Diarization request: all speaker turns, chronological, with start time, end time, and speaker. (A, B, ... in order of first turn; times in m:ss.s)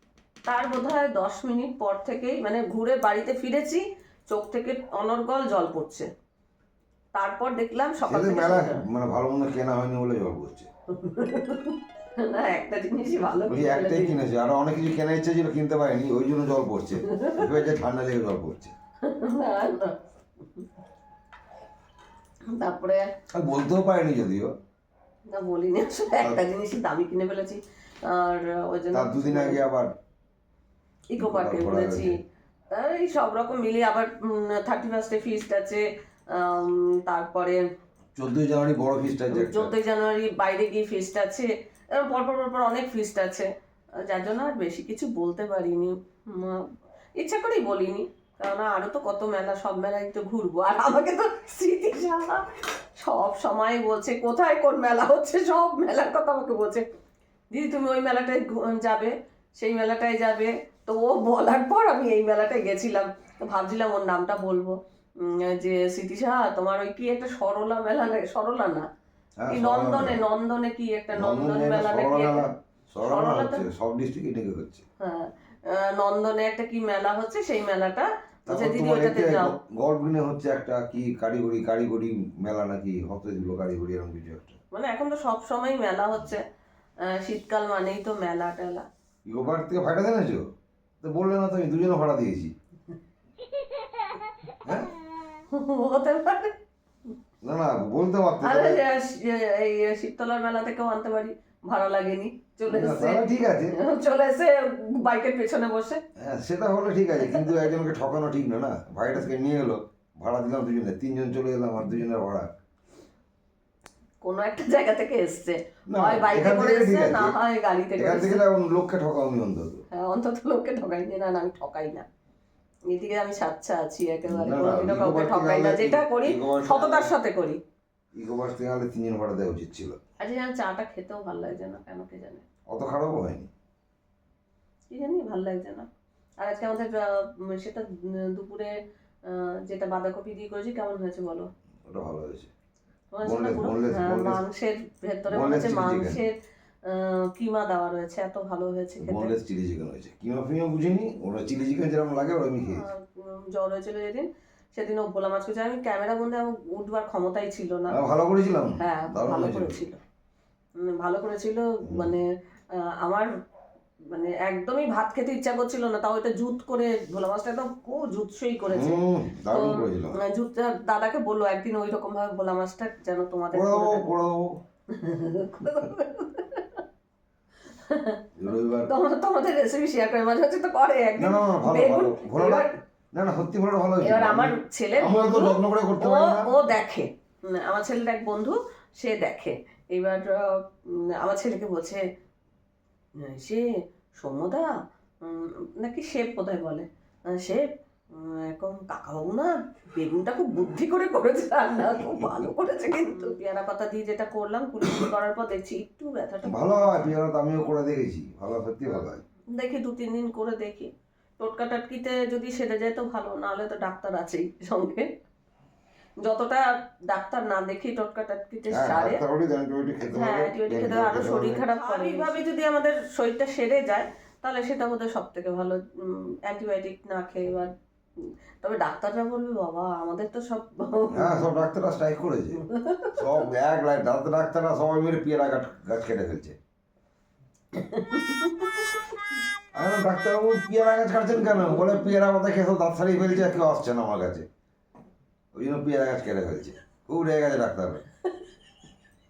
0:00.4-0:06.1 A
0:07.1-0:08.8 A
0:08.0-0:10.7 B
0:10.9-0:14.2 A
0:13.5-0:18.7 B
0:17.0-0:17.6 A
0:19.0-0:20.7 A
0:22.5-0:23.1 A
0:23.3-0:24.5 B
0:25.3-0:29.6 A
0:28.9-0:29.9 B
0:31.1-0:32.2 A
0:31.2-0:32.2 B
0:32.7-0:37.6 A
0:38.2-0:39.7 B
0:39.3-0:56.8 A
0:57.5-1:08.9 A
1:09.4-1:10.2 B
1:09.5-1:12.5 A
1:11.1-1:14.8 B
1:13.0-1:13.6 A
1:15.0-1:19.5 A
1:18.5-1:24.6 B
1:24.7-1:26.4 A
1:27.0-1:28.9 A
1:29.2-1:30.5 B
1:31.0-1:32.5 B
1:34.6-1:34.9 B
1:35.5-1:36.6 A
1:37.4-1:38.8 B
1:38.4-1:46.0 A
1:42.7-1:43.8 B
1:46.2-1:52.5 B
1:47.3-1:47.6 A
1:54.2-1:58.4 A
1:55.9-1:57.3 B
1:58.0-1:59.8 B
1:59.9-2:02.0 A
2:02.9-2:07.6 A
2:04.2-2:07.1 B
2:08.2-2:10.0 B
2:10.2-2:12.4 A
2:12.7-2:13.5 B
2:14.9-2:15.9 A
2:16.4-2:21.5 A
2:21.9-2:22.5 B
2:23.1-2:29.4 A
2:23.2-2:24.4 B
2:25.3-2:26.2 B
2:29.0-2:32.8 B
2:32.6-2:38.0 A
2:37.9-2:39.8 B
2:38.8-2:40.0 A
2:40.8-2:43.3 A
2:41.8-2:42.1 B
2:44.0-2:54.1 A
2:48.7-2:50.2 B
2:53.5-2:54.6 B
2:54.9-2:56.8 A
2:57.7-2:58.2 A
2:58.3-2:58.9 B
2:58.8-3:02.7 A
3:01.2-3:06.5 B
3:04.0-3:12.0 A
3:13.2-3:27.1 A
3:22.2-3:22.5 B
3:26.4-3:29.2 B
3:29.5-3:35.1 A
3:36.2-3:39.2 A
3:38.7-3:41.6 B
3:40.1-3:51.5 A
3:51.1-3:56.6 B
3:52.6-3:53.4 A
3:57.7-3:59.0 A
3:59.8-4:04.5 B
4:05.5-4:08.0 B